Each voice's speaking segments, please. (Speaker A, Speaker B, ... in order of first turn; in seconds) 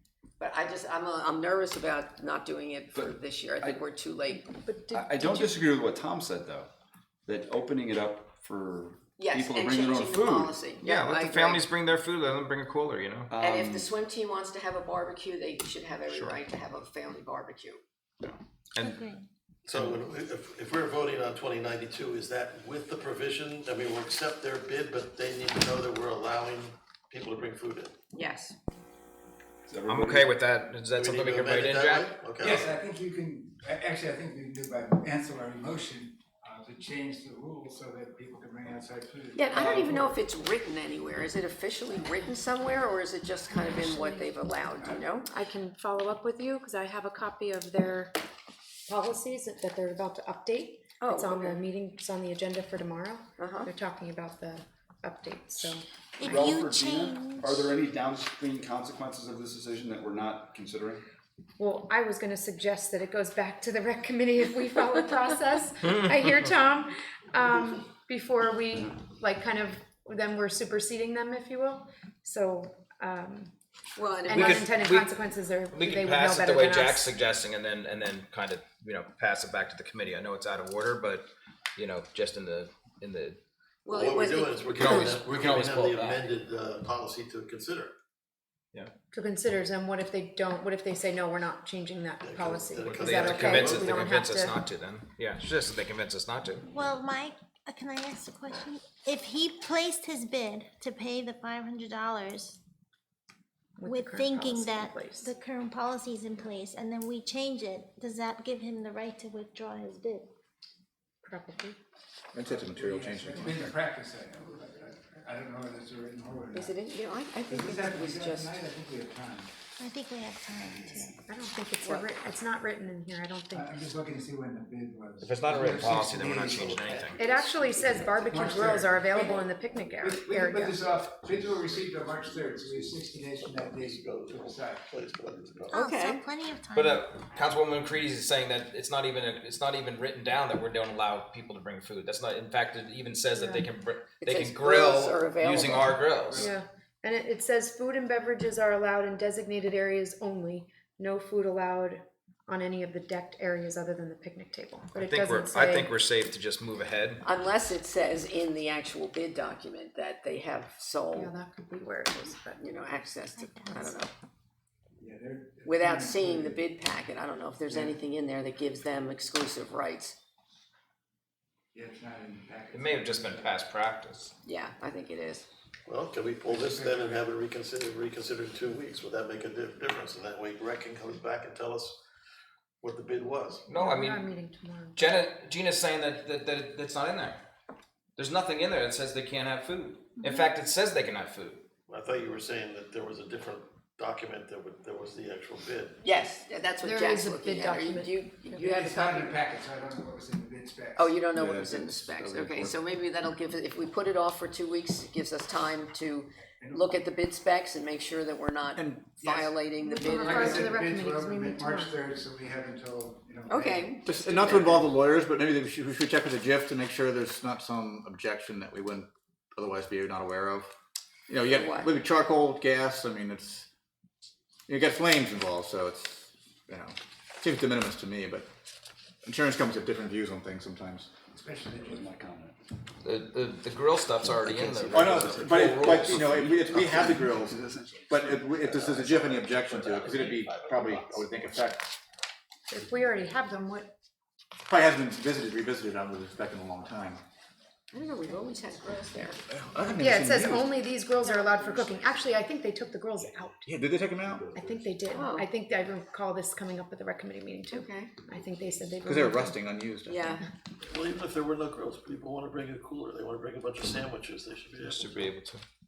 Speaker A: 0.4-4.5, 9.2-11.6, 13.4-17.8, 28.1-28.6, 39.4-45.3, 51.0-51.6, 53.4-53.7, 74.0-74.7, 83.8-85.1, 116.5-118.6, 135.7-136.2, 144.2-146.0, 157.2-161.3, 162.6-164.1, 165.6-170.2, 174.4-175.4, 196.0-199.4, 200.9-210.7, 213.5-214.8, 221.4-221.9, 247.9-249.4, 255.1-255.5, 257.7-258.1, 260.1-260.4
Speaker B: 2.9-3.8, 5.0-6.7, 7.2-10.4, 13.3-13.9, 29.7-30.2, 56.3-61.0, 232.0-232.6, 234.2-238.4
Speaker C: 4.3-5.7, 43.5-44.3, 45.3-48.1, 48.9-55.8, 61.6-73.5, 74.2-77.1, 89.1-94.6, 103.8-105.3, 111.2-111.8, 121.3-123.7, 127.2-130.8, 143.4-143.7, 146.4-155.9, 161.1-162.6, 183.7-185.0, 196.8-198.1, 209.8-212.0, 242.7-243.9, 250.0-253.7, 254.5-259.6
Speaker D: 10.1-13.3, 16.1-16.4, 18.2-19.0, 29.9-32.1, 65.8-66.4, 74.3-83.4, 84.8-86.2, 92.8-96.6, 125.2-127.2, 136.7-146.5, 154.9-157.2, 172.7-174.3, 183.7-184.3, 184.9-187.4, 188.2-191.6, 233.0-236.4, 264.8-265.6
Speaker E: 18.8-19.2, 56.2-57.7, 96.6-102.6, 103.8-110.3, 119.8-121.2, 135.7-137.1, 163.3-164.0
Speaker F: 19.6-27.9, 30.9-32.8, 83.9-87.9, 92.2-94.0, 133.4-135.8, 175.8-182.0, 182.8-183.7, 191.9-196.0, 238.6-241.6, 260.9-265.2
Speaker G: 32.4-40.1, 112.4-116.8, 117.5-119.5, 123.5-134.9, 165.0-166.7, 167.7-167.9, 171.7-173.6, 176.4-177.2, 198.5-201.2, 206.6-207.0, 210.0-214.7, 231.3-232.0
Speaker H: 112.3-113.8, 201.3-202.7, 208.8-209.2, 214.1-220.7, 221.3-223.7, 224.7-228.5, 229.2-231.1, 234.9-241.9, 244.7-247.2, 249.5-250.7, 253.7-254.5, 259.0-260.4